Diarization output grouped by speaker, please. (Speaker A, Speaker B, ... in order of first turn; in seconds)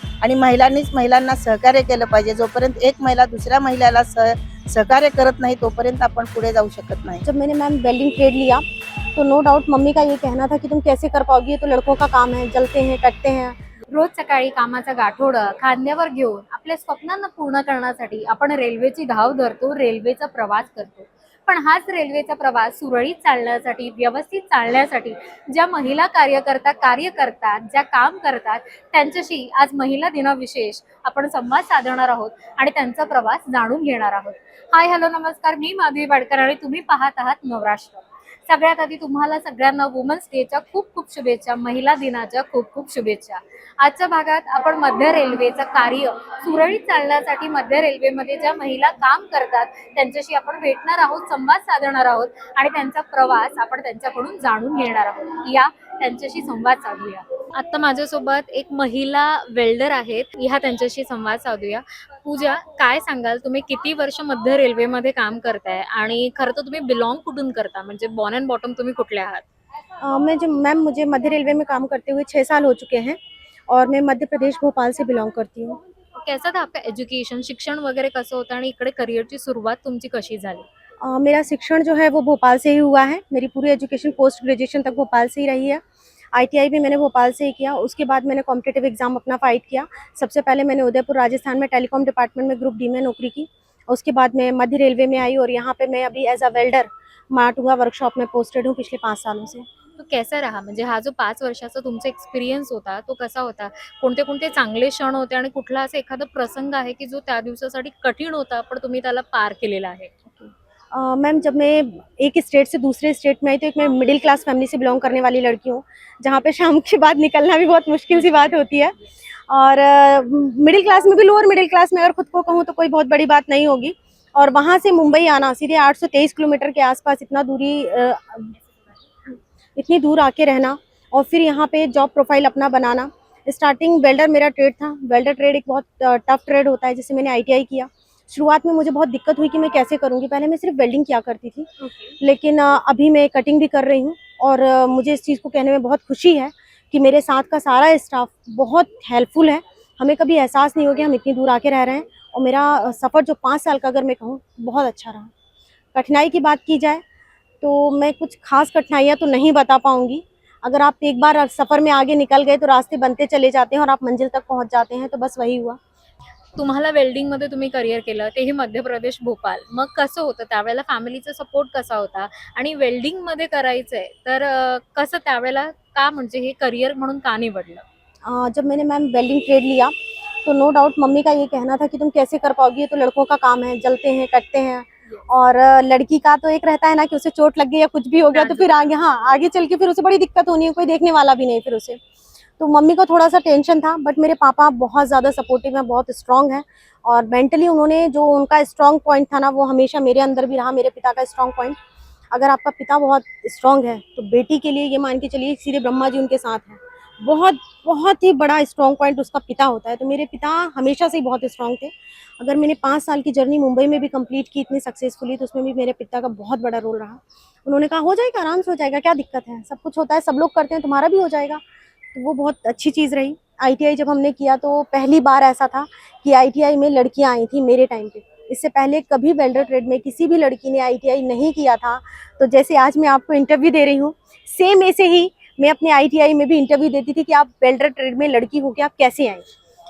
Speaker A: 0.2-7.2
Speaker B: 7.2-8.6, 9.1-13.6, 70.0-75.8, 81.0-85.8, 86.3-99.7, 110.2-119.0, 119.5-128.5, 129.3-141.7, 142.2-155.3, 155.9-157.0, 157.6-165.8, 178.2-179.9, 180.4-192.0, 192.6-201.8, 202.3-221.6, 222.1-239.5
Speaker C: 13.9-69.4, 76.2-80.7, 100.0-110.1, 141.8-142.2, 166.6-177.8, 188.3-189.0